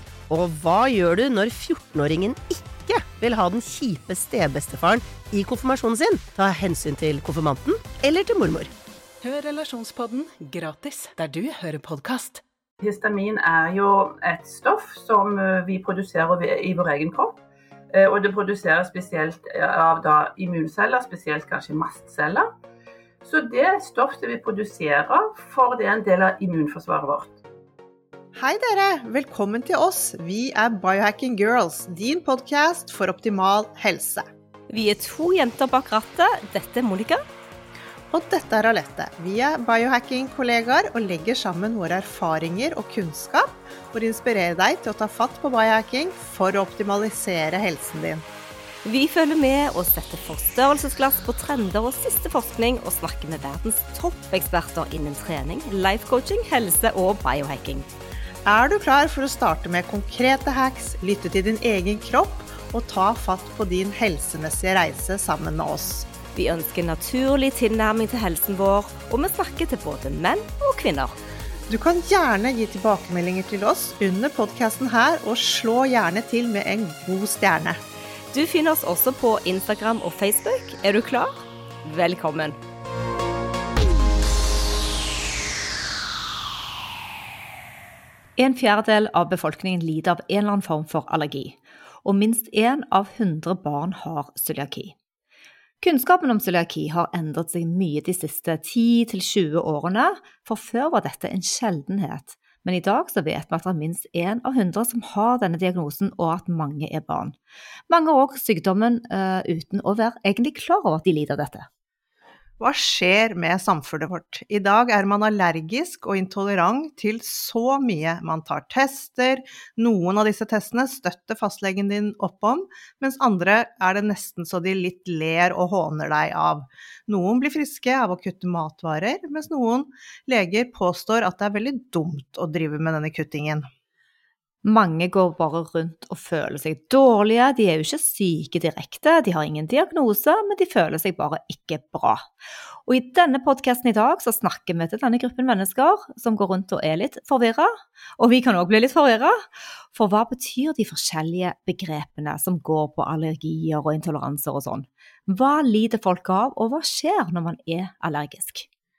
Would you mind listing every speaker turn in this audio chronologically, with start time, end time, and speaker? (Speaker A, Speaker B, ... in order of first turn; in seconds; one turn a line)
Speaker A: 0.3-8.7
Speaker B: 9.2-12.4
Speaker C: 12.8-17.4
Speaker C: 17.9-22.5
Speaker C: 23.2-27.4
Speaker D: 28.4-34.3
Speaker E: 34.7-37.2
Speaker D: 38.1-48.2
Speaker E: 48.9-57.9
Speaker D: 58.5-66.1
Speaker E: 66.3-71.2
Speaker D: 71.7-77.8
Speaker E: 78.3-82.6
Speaker E: 88.4-95.0
Speaker E: 95.8-107.3
Speaker E: 107.9-111.7
Speaker D: 112.6-133.7
Speaker E: 134.6-142.2
Speaker E: 142.9-149.4
Speaker E: 149.9-158.7